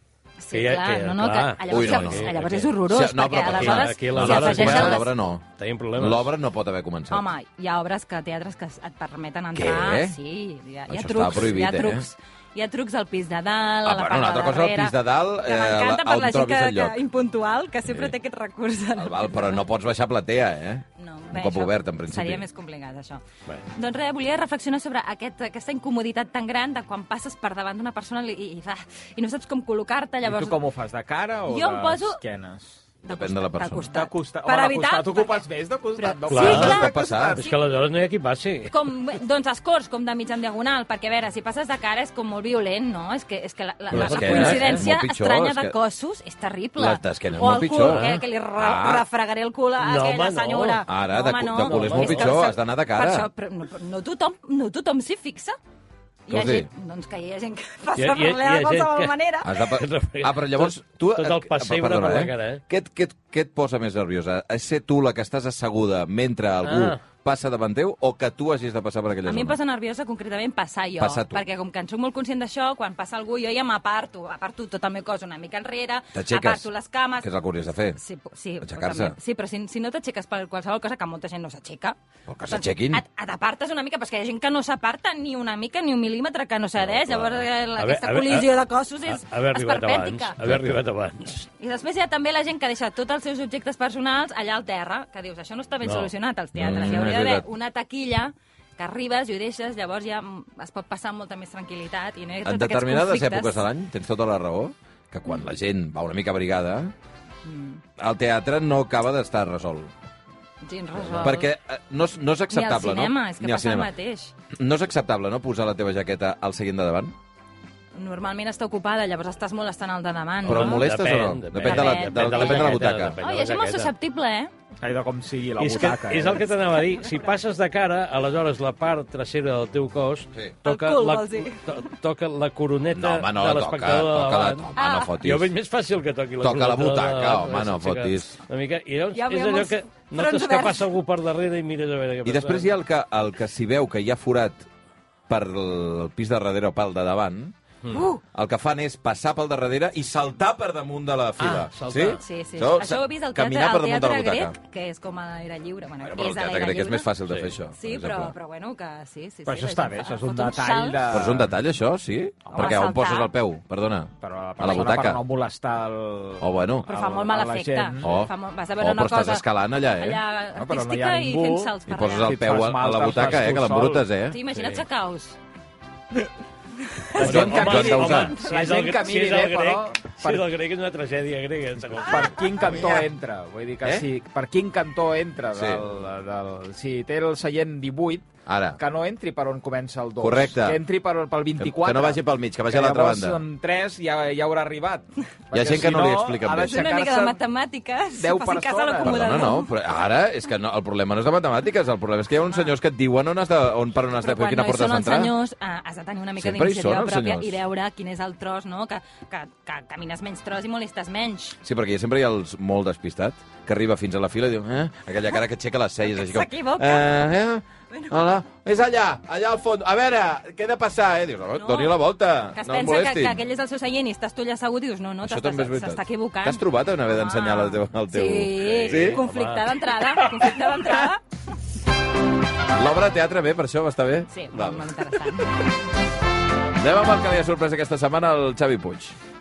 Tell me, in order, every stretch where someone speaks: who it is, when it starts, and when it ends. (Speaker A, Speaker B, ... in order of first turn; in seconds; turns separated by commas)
Speaker A: 0.4-5.1, Speaker B: 0.5-2.7, Speaker C: 1.7-7.2, Speaker B: 3.4-6.3, Speaker A: 7.1-19.7, Speaker C: 9.5-10.2, Speaker C: 10.9-12.1, Speaker C: 13.8-17.0, Speaker C: 17.8-18.1, Speaker C: 18.9-22.4, Speaker A: 21.0-23.2, Speaker A: 23.7-30.6, Speaker D: 30.2-32.8, Speaker A: 31.5-32.2, Speaker A: 33.0-35.5, Speaker C: 33.1-33.9, Speaker D: 33.9-37.5, Speaker A: 36.0-36.9, Speaker B: 36.3-38.7, Speaker C: 36.4-37.4, Speaker A: 38.7-55.5, Speaker C: 43.9-45.8, Speaker B: 43.9-44.9, Speaker C: 46.8-49.0, Speaker B: 47.8-48.2, Speaker B: 49.8-50.8, Speaker C: 50.9-53.3, Speaker B: 51.6-52.4, Speaker A: 56.3-59.5, Speaker C: 56.3-56.7, Speaker B: 58.0-62.6, Speaker C: 59.4-69.6, Speaker B: 66.6-67.0, Speaker A: 69.2-77.3, Speaker C: 71.0-71.4, Speaker C: 76.1-76.7, Speaker C: 77.2-78.0, Speaker A: 78.0-82.0, Speaker C: 78.6-79.2, Speaker C: 82.3-83.0, Speaker A: 82.5-90.3, Speaker C: 86.8-87.4, Speaker B: 87.8-91.5, Speaker C: 90.4-90.7, Speaker A: 91.6-103.6, Speaker B: 95.8-96.1, Speaker C: 96.5-97.5, Speaker C: 102.4-106.9, Speaker A: 107.4-107.8, Speaker C: 108.0-109.9, Speaker A: 110.6-111.5, Speaker B: 111.0-111.3, Speaker C: 111.2-113.9, Speaker A: 112.5-114.3, Speaker C: 114.5-117.1, Speaker A: 117.9-120.9, Speaker C: 120.4-123.2, Speaker B: 120.5-123.9, Speaker A: 121.6-124.5, Speaker D: 124.8-126.5, Speaker B: 125.6-142.7, Speaker A: 125.8-127.4, Speaker A: 130.6-131.9, Speaker C: 132.9-135.5, Speaker A: 134.8-135.2, Speaker C: 136.4-138.4, Speaker A: 139.1-140.9, Speaker C: 142.2-144.7, Speaker C: 145.3-147.6, Speaker A: 147.9-148.2, Speaker C: 148.3-154.5, Speaker B: 151.4-152.2, Speaker A: 152.1-157.1, Speaker C: 156.0-158.3, Speaker B: 157.3-157.5, Speaker A: 157.8-161.2, Speaker D: 159.4-161.5, Speaker C: 161.1-165.2, Speaker A: 162.5-163.3, Speaker D: 164.2-168.1, Speaker C: 166.4-166.9, Speaker A: 166.8-169.4, Speaker C: 168.0-170.2, Speaker A: 169.9-172.4, Speaker D: 170.5-174.0, Speaker C: 171.9-174.4, Speaker A: 174.3-175.4, Speaker B: 174.6-174.8, Speaker D: 177.2-180.5, Speaker C: 177.2-178.4, Speaker B: 177.2-182.6, Speaker D: 182.0-197.4, Speaker C: 185.5-185.8, Speaker C: 188.4-188.8, Speaker C: 190.2-190.8, Speaker C: 191.6-193.4, Speaker C: 195.5-197.1, Speaker A: 196.6-199.7, Speaker D: 198.1-199.5, Speaker C: 199.0-205.3, Speaker A: 202.5-202.7, Speaker A: 204.2-211.6, Speaker C: 206.4-207.6, Speaker C: 211.6-223.4, Speaker A: 216.1-217.3, Speaker A: 217.9-218.2, Speaker A: 221.6-222.0, Speaker A: 222.5-231.2, Speaker C: 225.2-229.2, Speaker B: 228.6-229.8, Speaker C: 232.7-234.9, Speaker A: 234.3-235.5, Speaker C: 236.8-239.2